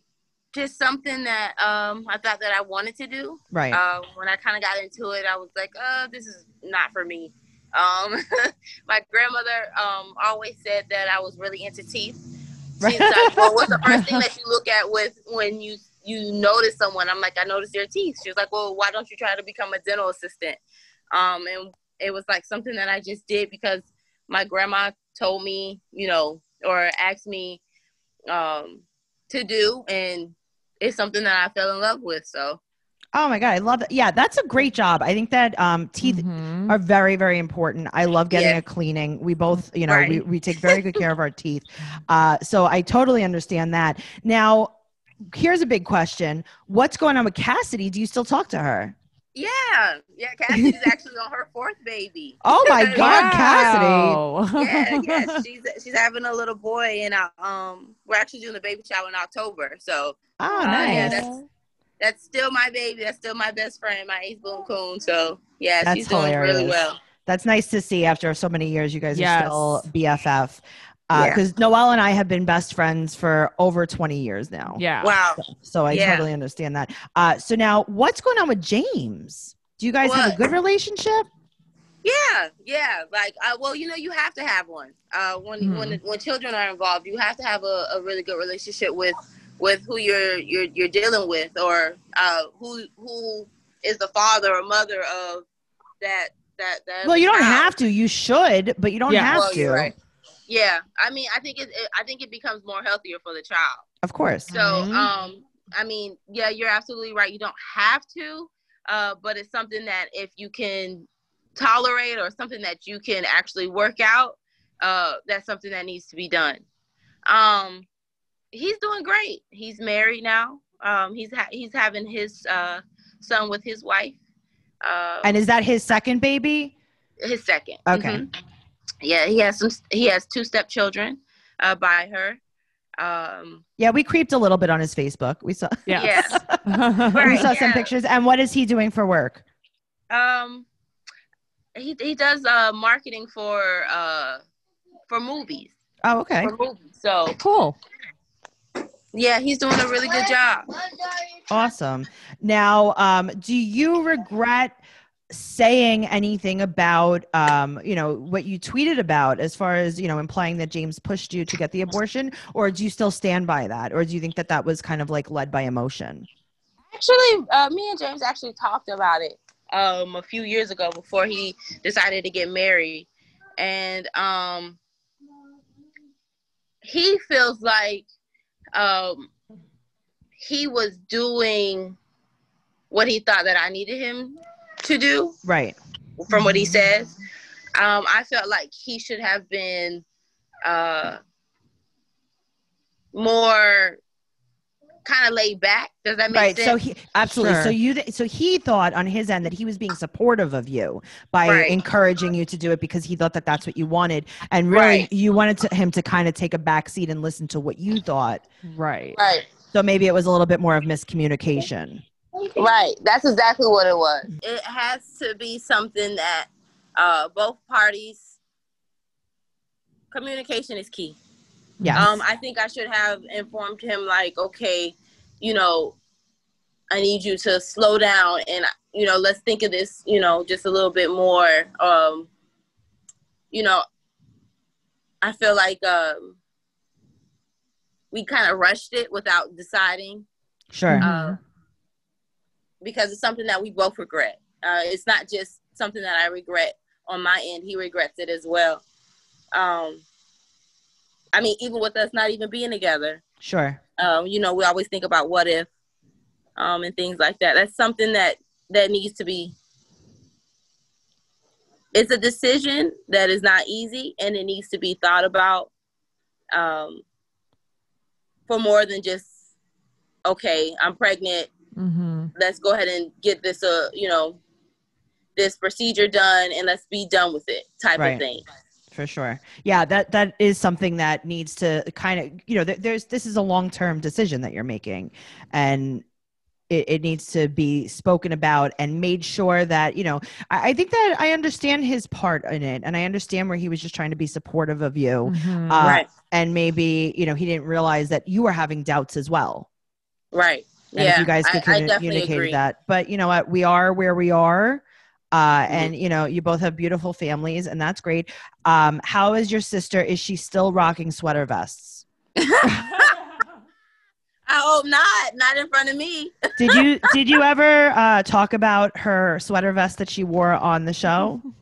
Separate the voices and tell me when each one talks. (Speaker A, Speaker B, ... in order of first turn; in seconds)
Speaker A: 0.5-12.2, 12.8-20.6, 21.1-27.6, 28.3-32.6, 38.3-38.6, 39.9-41.0, 49.3-53.8, 54.5-61.4, 62.0-67.0, 71.1-71.4, 75.0-76.3, 80.0-80.4, 82.0-95.5, 96.0-97.7, 99.3-99.9, 100.5-103.8, 104.5-116.6, 117.3-117.8, 118.5-124.2, 124.8-125.4, 127.2-128.3, 129.0-132.4, 133.0-133.6, 135.9-136.4, 137.1-137.9, 140.1-140.7, 141.7-144.4, 145.1-145.7, 146.4-147.4, 149.1-150.7, 166.9-174.8, 176.8-178.1, 178.7-179.3, 180.4-182.0, 182.9-185.3, 186.2-187.1, 187.8-190.0, 190.6-191.2, 193.1-194.0, 195.0-196.8, 201.4-201.8, 204.7-205.1, 209.2-209.4, 212.5-218.3, 220.1-221.2, 221.9-225.9, 226.9-232.3, 233.5-233.8, 235.2-236.3, 238.1-240.2, 241.0-241.4, 242.8-248.8, 249.5-250.0, 251.3-253.2, 254.0-255.7, 256.6-259.5, 261.9-265.7, 266.5-267.0, 268.5-269.3, 270.2-271.5, 272.3-274.4, 275.4-278.4, 295.8-296.1, 300.3-302.6, 312.4-313.2, 314.4-316.8
Speaker B: 3.5-3.8, 12.8-14.2, 33.1-44.7, 45.3-48.9, 52.4-54.2, 60.4-61.3, 65.8-74.8, 75.4-81.3, 97.0-99.9, 104.0-105.0, 125.2-126.7, 127.9-128.2, 133.8-139.4, 146.0-146.5, 151.5-154.8, 155.3-166.3, 185.4-185.8, 196.3-208.4, 209.7-212.0, 221.8-222.1, 240.7-241.1, 253.4-253.8, 277.9-278.2, 278.9-286.0, 286.7-299.7, 300.9-312.0, 316.6-321.4
Speaker C: 36.0-36.7, 52.9-55.4, 60.6-61.5, 69.1-69.9, 74.8-75.1, 85.6-86.0, 99.1-99.5, 104.7-105.0, 135.9-137.4, 147.4-147.8, 186.3-186.7, 197.3-197.8, 208.6-209.2, 221.8-222.1, 240.9-241.3, 271.8-272.3, 295.2-296.0